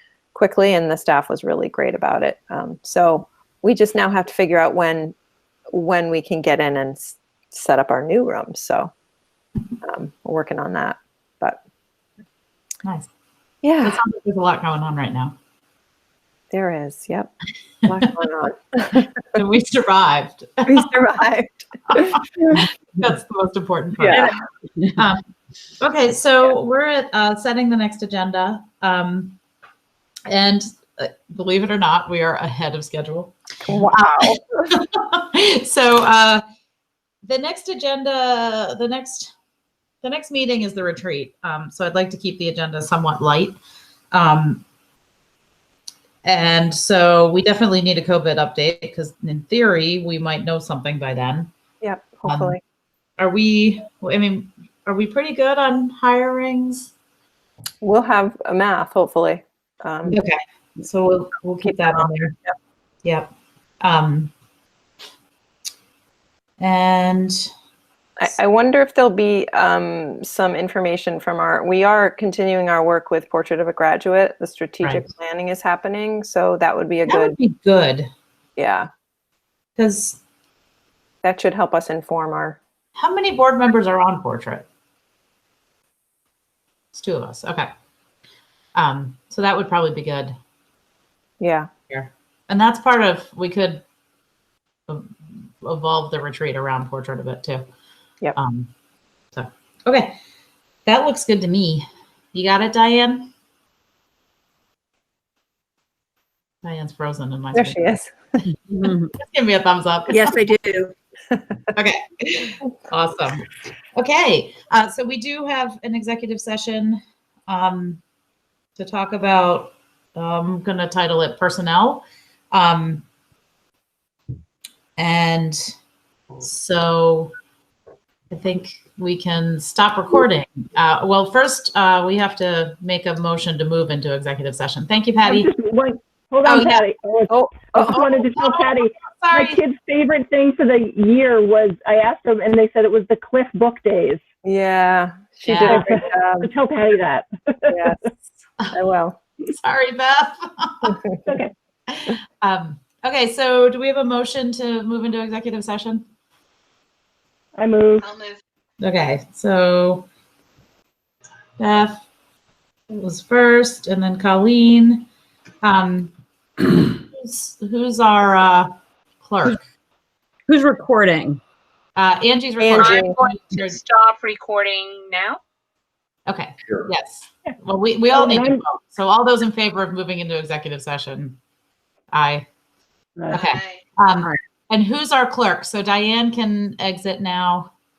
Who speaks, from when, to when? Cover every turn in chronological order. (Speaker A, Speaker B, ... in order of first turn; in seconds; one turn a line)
Speaker A: 0.3-5.1
Speaker A: 5.7-8.9
Speaker A: 9.8-11.6
Speaker B: 12.8-13.1
Speaker A: 13.6-14.0
Speaker B: 13.8-15.3
Speaker A: 16.5-17.3
Speaker A: 17.9-19.2
Speaker B: 19.3-20.9
Speaker A: 20.6-22.6
Speaker B: 21.9-24.3
Speaker A: 24.0-24.3
Speaker B: 24.9-25.2
Speaker B: 25.8-29.4
Speaker B: 30.3-36.4
Speaker A: 33.6-34.7
Speaker B: 37.2-39.3
Speaker B: 40.0-43.6
Speaker B: 44.1-44.6
Speaker B: 46.2-51.5
Speaker A: 51.8-52.6
Speaker B: 52.2-52.5
Speaker B: 53.2-56.9
Speaker A: 57.8-60.2
Speaker B: 60.1-62.3
Speaker A: 61.7-62.5
Speaker B: 63.8-64.3
Speaker B: 66.6-67.5
Speaker A: 68.2-77.3
Speaker B: 77.1-78.1
Speaker A: 78.6-78.9
Speaker B: 79.8-80.2
Speaker A: 81.2-82.6
Speaker B: 83.0-84.7
Speaker B: 86.9-87.7
Speaker B: 88.7-90.3
Speaker A: 91.4-91.7
Speaker B: 91.9-93.8
Speaker B: 94.9-97.6
Speaker B: 98.3-98.7
Speaker B: 99.3-100.1
Speaker B: 100.8-103.3
Speaker B: 106.6-107.9
Speaker A: 107.5-108.1
Speaker C: 108.8-109.1
Speaker B: 109.1-110.3
Speaker C: 110.1-110.9
Speaker B: 111.7-113.4
Speaker B: 114.0-118.0
Speaker B: 118.8-123.0
Speaker B: 125.0-125.7
Speaker B: 126.4-127.3
Speaker B: 128.3-135.5
Speaker D: 135.2-144.2
Speaker B: 136.4-136.8
Speaker A: 137.3-138.2
Speaker B: 138.3-139.6
Speaker A: 144.4-146.5
Speaker B: 145.4-145.8
Speaker D: 145.7-147.9
Speaker A: 147.7-148.1
Speaker A: 148.7-149.2
Speaker B: 149.6-151.0
Speaker D: 151.2-151.5
Speaker B: 151.9-156.0
Speaker D: 157.6-158.1
Speaker B: 158.8-160.1
Speaker B: 161.6-162.0
Speaker B: 162.9-165.1
Speaker B: 165.6-166.1
Speaker B: 166.7-169.6
Speaker C: 170.5-171.4
Speaker B: 171.9-173.8
Speaker E: 172.6-175.4
Speaker A: 172.6-173.1
Speaker B: 176.3-181.4
Speaker D: 178.1-178.6
Speaker B: 182.1-182.4
Speaker B: 183.3-187.7
Speaker E: 183.3-183.6